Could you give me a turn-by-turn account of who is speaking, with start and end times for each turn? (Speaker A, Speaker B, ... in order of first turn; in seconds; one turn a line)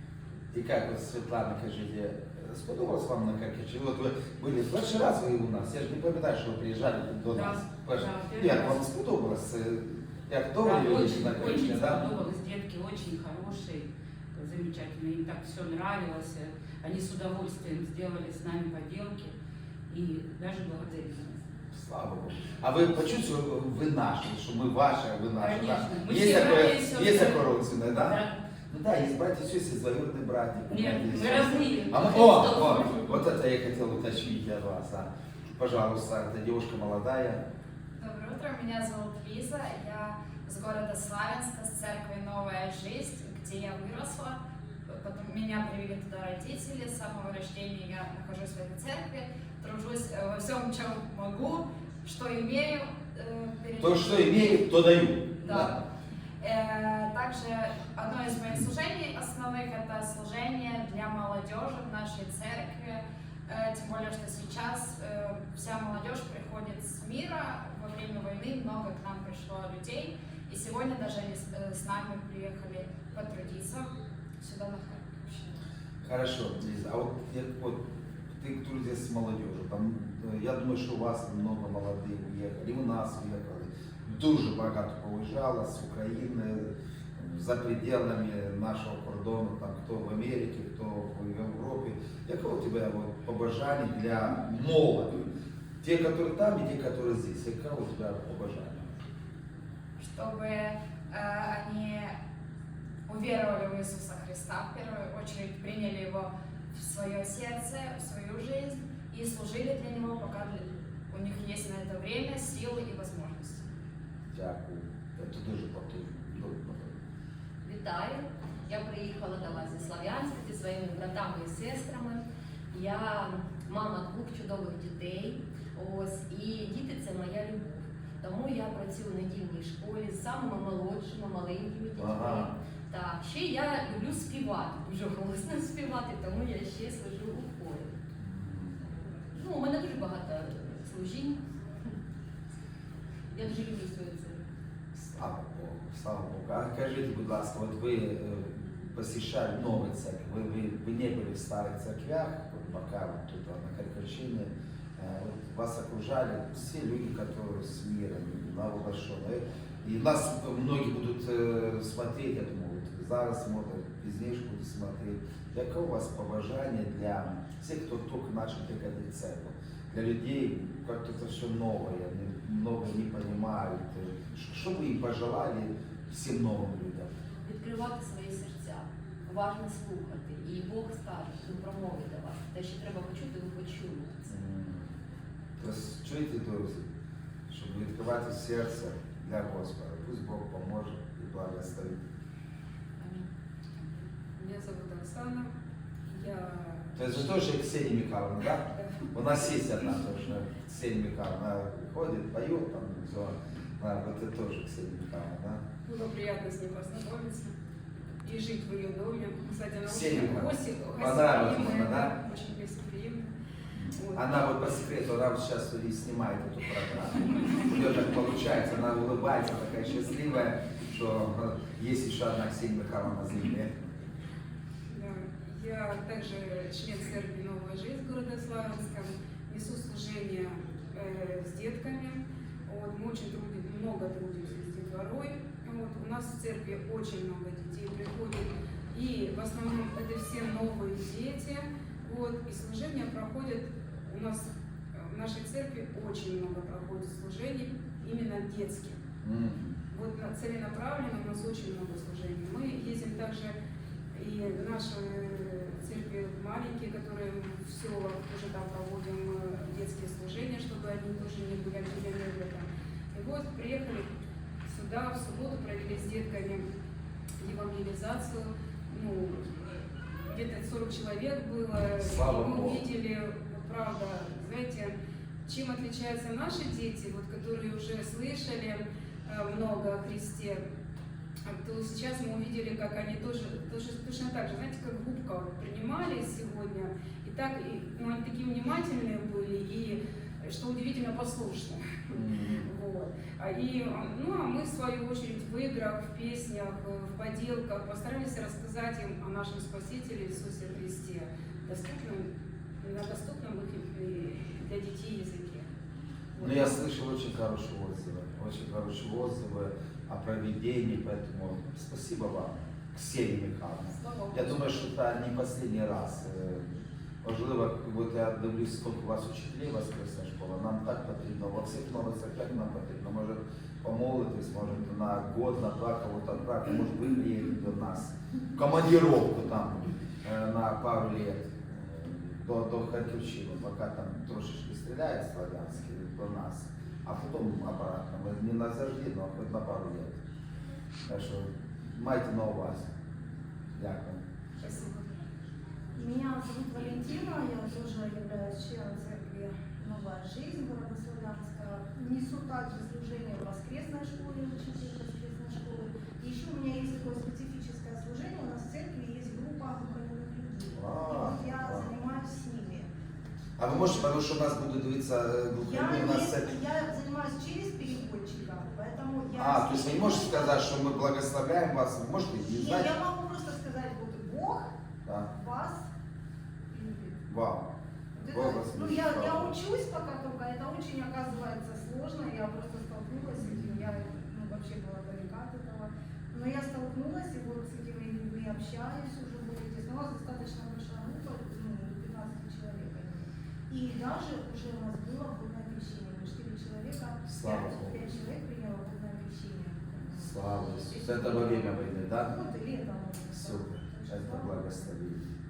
Speaker A: 0.5-12.1
Speaker B: 7.3-8.8
Speaker B: 10.6-19.3
Speaker B: 19.9-21.4
Speaker A: 21.7-37.4
Speaker B: 25.4-28.4
Speaker B: 30.7-33.0
Speaker C: 38.0-54.6
Speaker A: 53.8-55.8
Speaker C: 55.4-55.8
Speaker C: 56.4-73.9
Speaker C: 74.4-75.5
Speaker A: 76.0-77.8
Speaker A: 78.4-95.3
Speaker A: 95.8-98.9
Speaker C: 100.0-102.1
Speaker C: 103.1-113.7
Speaker A: 114.3-117.0
Speaker D: 117.6-138.0
Speaker A: 132.0-132.5
Speaker A: 138.2-138.9
Speaker D: 139.3-141.4
Speaker D: 143.3-144.4
Speaker A: 144.9-177.1
Speaker D: 177.4-184.2
Speaker A: 184.3-184.9
Speaker A: 185.6-186.8
Speaker A: 187.5-192.0
Speaker E: 194.4-195.5
Speaker E: 196.1-196.9
Speaker A: 196.9-205.6
Speaker E: 205.8-207.5
Speaker E: 208.2-213.3
Speaker A: 209.9-212.1
Speaker A: 213.8-224.0
Speaker E: 213.9-214.5
Speaker E: 224.9-244.4
Speaker E: 245.0-249.0
Speaker A: 249.2-249.8
Speaker E: 249.9-253.5
Speaker E: 254.1-264.1
Speaker E: 264.6-266.6
Speaker E: 267.4-269.4
Speaker E: 270.3-274.9
Speaker A: 272.0-272.8
Speaker E: 275.5-280.6
Speaker E: 281.5-302.3
Speaker A: 292.1-292.7
Speaker E: 302.8-305.7
Speaker E: 306.4-306.8
Speaker A: 306.4-340.1
Speaker E: 313.9-314.8
Speaker A: 341.0-342.9
Speaker A: 343.7-344.2
Speaker E: 344.6-345.1
Speaker F: 345.9-362.9
Speaker A: 360.7-361.9
Speaker A: 363.6-366.5
Speaker F: 365.6-370.7
Speaker A: 369.4-372.9
Speaker F: 372.5-374.7
Speaker A: 375.0-375.3
Speaker F: 375.3-375.9
Speaker F: 376.7-377.1
Speaker A: 377.3-377.6
Speaker F: 378.1-404.7
Speaker A: 378.2-379.5
Speaker A: 397.3-398.0
Speaker A: 400.2-402.3
Speaker A: 403.3-405.3